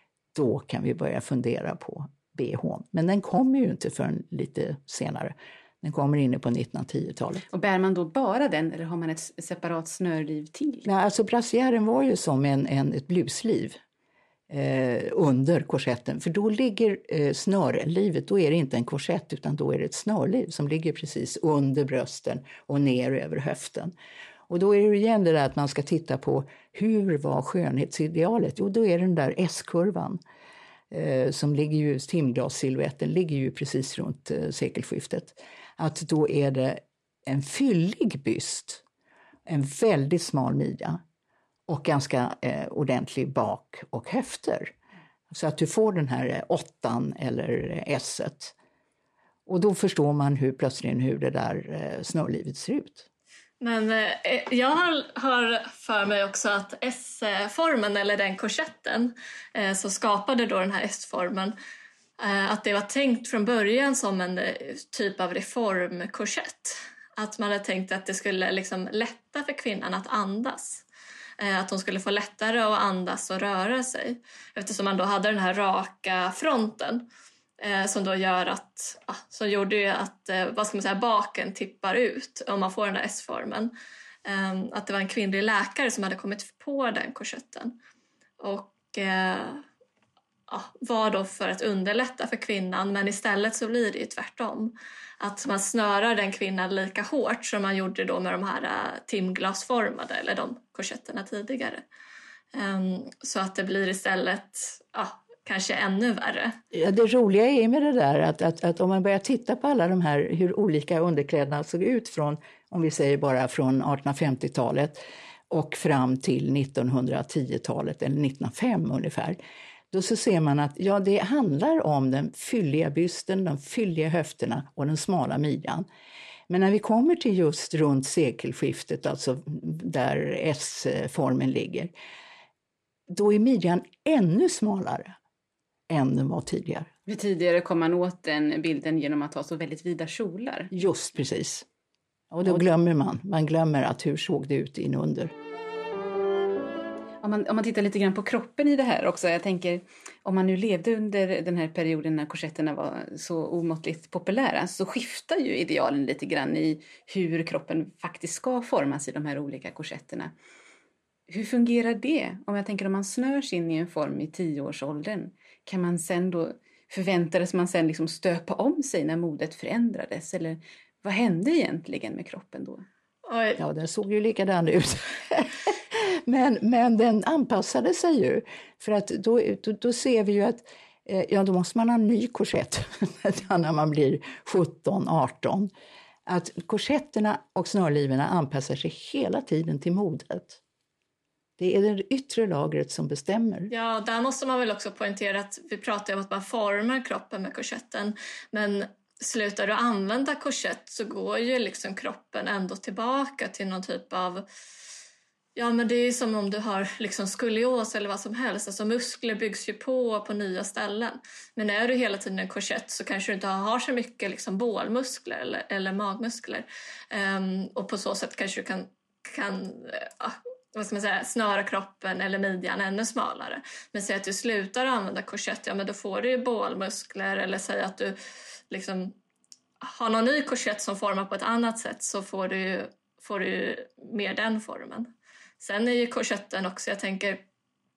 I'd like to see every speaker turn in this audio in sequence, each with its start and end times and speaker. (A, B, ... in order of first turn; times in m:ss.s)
0:00.4-0:07.5 A
0:07.5-0:10.9 B
0:10.8-0:13.8 A
0:14.5-0:23.9 A
0:24.5-0:30.2 A
0:30.9-0:38.8 A
0:39.5-0:41.0 A
0:41.7-0:44.7 A
0:45.3-0:48.5 A
0:49.5-0:53.1 A
0:53.6-1:01.6 C
1:02.2-1:10.8 C
1:11.4-1:17.1 C
1:17.6-1:23.7 C
1:24.3-1:27.8 C
1:28.4-1:29.6 C
1:30.5-1:41.8 C
1:42.5-1:46.6 C
1:46.7-1:59.4 A
1:59.9-2:05.9 A
2:06.5-2:11.9 A
2:13.1-2:15.2 A
2:15.9-2:16.9 A
2:17.1-2:20.7 B
2:20.7-2:21.6 A
2:22.3-2:25.3 A
2:27.2-2:40.3 B
2:41.3-2:52.8 B
2:53.3-2:53.6 C
2:53.6-3:05.7 A
3:06.3-3:10.6 A
3:11.6-3:13.7 A
3:13.7-3:24.4 C
3:25.6-3:48.2 C
3:48.7-3:49.2 C
3:49.8-3:57.4 C